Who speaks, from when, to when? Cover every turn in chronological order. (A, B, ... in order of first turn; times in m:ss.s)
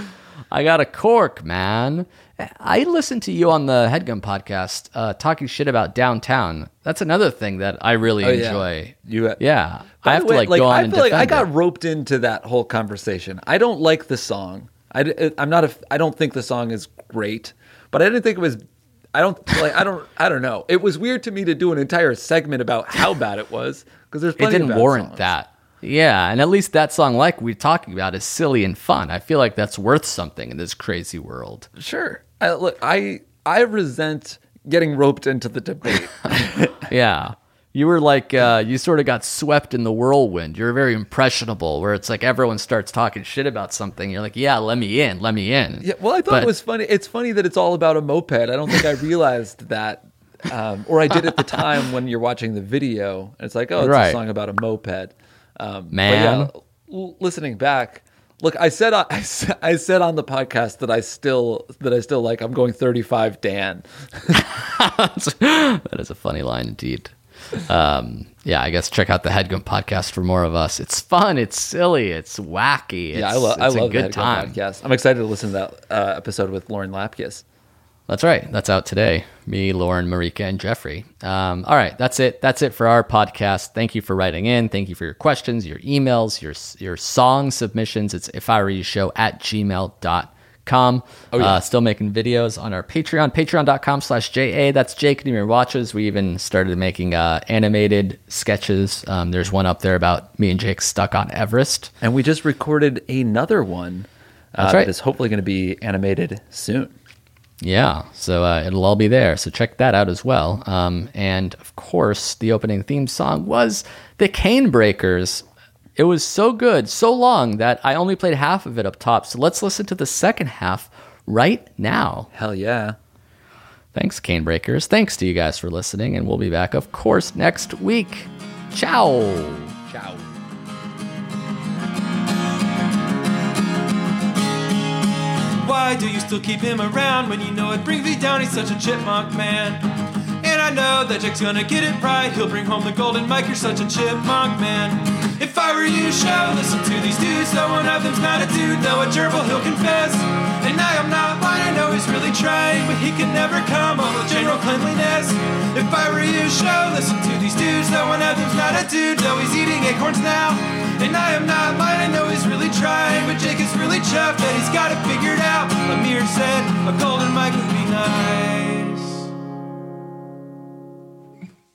0:00.5-0:11.5 A
0:08.2-0:09.4 B
0:10.0-0:25.3 B
0:24.4-0:31.7 A
0:31.8-0:36.8 B
0:36.3-0:46.5 A
0:45.8-1:04.4 B
0:53.8-0:54.2 A
0:55.9-0:56.5 A
1:04.3-1:14.6 A
1:13.1-1:17.4 B
1:18.1-1:41.9 A
1:31.3-1:31.6 B
1:42.0-1:46.9 B
1:44.6-1:44.9 A
1:47.6-1:55.4 A
1:56.0-2:02.3 A
2:02.3-2:03.0 B
2:03.9-2:09.7 A
2:09.9-2:10.2 B
2:15.6-2:19.8 C
2:20.4-2:49.3 C